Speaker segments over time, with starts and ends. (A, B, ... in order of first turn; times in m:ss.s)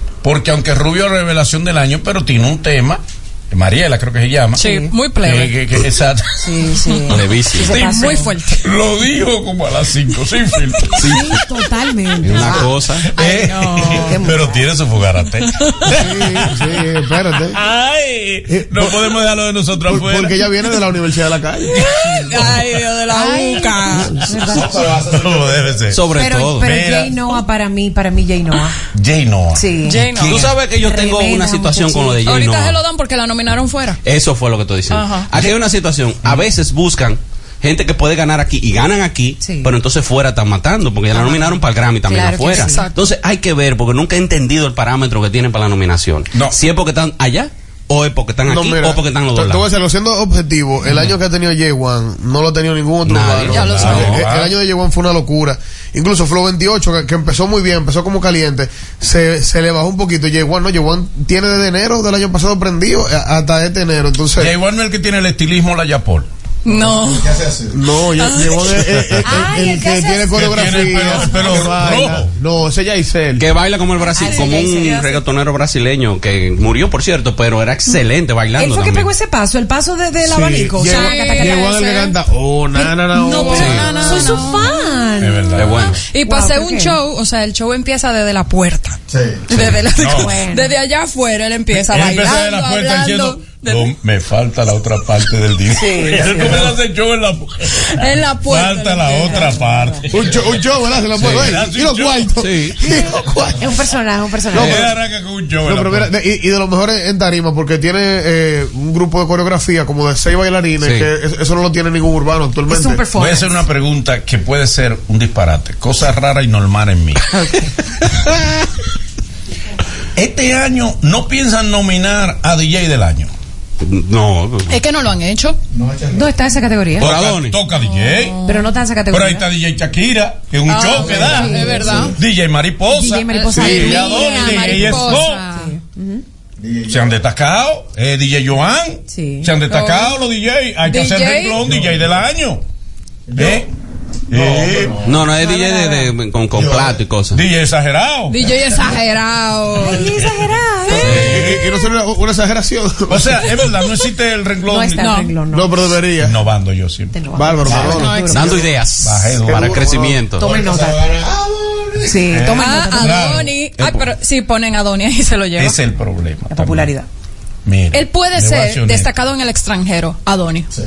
0:00.2-0:04.7 A
0:04.6-0:05.6 B
0:04.6-0:04.9 C
0:05.2-0:06.8 A
0:06.4-0:08.3 C
0:07.1-0:07.8 D
0:07.6-0:08.6 B
0:07.7-0:11.3 A
0:11.0-0:11.4 D
0:11.0-0:12.7 C
0:12.2-0:13.1 D
0:12.3-0:16.7 A
0:13.2-0:14.1 B
0:13.8-0:14.6 C
0:15.9-0:17.6 E
0:17.5-0:20.5 A
0:18.5-0:19.1 E
0:19.9-0:21.8 E
0:21.7-0:22.7 A
0:22.2-0:24.3 B
0:23.1-0:24.9 C
0:24.3-0:26.1 A
0:25.9-0:26.7 D
0:26.1-0:28.8 C
0:26.6-0:27.4 A
0:28.9-0:30.5 A
0:29.5-0:32.2 C
0:29.8-0:30.4 B
0:30.2-0:32.8 D
0:32.2-0:34.0 B
0:34.0-0:49.7 D
0:34.9-0:35.3 B
0:39.4-0:39.7 C
0:41.1-0:42.8 C
0:42.5-0:43.0 B
0:48.5-1:04.6 E
0:53.0-0:54.3 D
0:53.5-0:54.6 A
0:53.5-0:54.2 B
1:04.4-1:06.3 A
1:06.6-1:07.5 B
1:07.6-1:13.5 E
1:08.2-1:08.8 B
1:08.9-1:09.5 A
1:09.2-1:11.1 C
1:10.3-1:12.3 A
1:13.4-1:19.1 D
1:14.1-1:15.2 B
1:14.2-1:14.8 C
1:18.6-1:22.1 C
1:20.2-1:24.2 E
1:20.8-1:22.1 B
1:22.7-1:25.6 C
1:23.2-1:25.1 B
1:23.5-1:24.0 D
1:25.2-1:26.0 A
1:25.6-1:26.0 D
1:25.8-1:33.9 B
1:26.2-1:27.0 C
1:29.1-1:29.4 E
1:29.6-1:30.4 A
1:30.1-1:30.8 C
1:31.7-1:40.5 A
1:35.7-1:36.7 C
1:37.9-1:39.6 B
1:39.3-1:40.0 C
1:40.1-1:43.8 E
1:41.2-1:42.4 A
1:41.2-1:41.5 D
1:42.4-1:42.8 D
1:42.8-1:44.9 C
1:44.5-1:44.9 E
1:44.5-1:46.1 A
1:45.6-1:53.1 E
1:50.8-1:51.1 D
1:52.7-1:53.6 C
1:53.1-1:57.3 A
1:57.3-1:57.7 C
2:00.2-2:03.3 A
2:03.8-2:04.8 D
2:04.7-2:05.6 B
2:06.1-2:07.1 C
2:07.0-2:08.4 A
2:07.0-2:07.6 D
2:07.7-2:08.7 B
2:08.4-2:09.5 C
2:09.1-2:15.5 A
2:10.7-2:12.2 B
2:11.0-2:12.1 C
2:12.9-2:16.2 C
2:13.3-2:15.8 B
2:16.8-2:22.6 A
2:19.1-2:19.6 C
2:19.7-2:20.2 B
2:20.9-2:21.6 B
2:23.3-2:23.7 A
2:24.3-2:25.2 A
2:24.4-2:24.8 E
2:25.0-2:27.4 D
2:25.4-2:26.1 C
2:27.3-2:28.5 A
2:28.3-2:30.3 B
2:29.8-2:31.2 C
2:30.9-2:33.5 E
2:31.0-2:31.5 D
2:31.0-2:31.7 A
2:33.1-2:35.1 A
2:34.7-2:35.8 C
2:35.0-2:35.4 B
2:35.5-2:36.4 E
2:36.2-2:38.1 A
2:37.1-2:38.6 C
2:37.3-2:38.6 E
2:37.9-2:38.7 B
2:38.3-2:40.5 D
2:39.0-2:39.8 A
2:39.4-2:40.7 E
2:40.4-2:41.2 C
2:42.0-2:43.4 C
2:42.2-2:43.5 A
2:42.5-2:45.8 B
2:43.8-2:44.1 D
2:45.6-2:46.9 A
2:46.5-2:47.1 C
2:47.6-2:49.1 A
2:47.9-2:50.7 B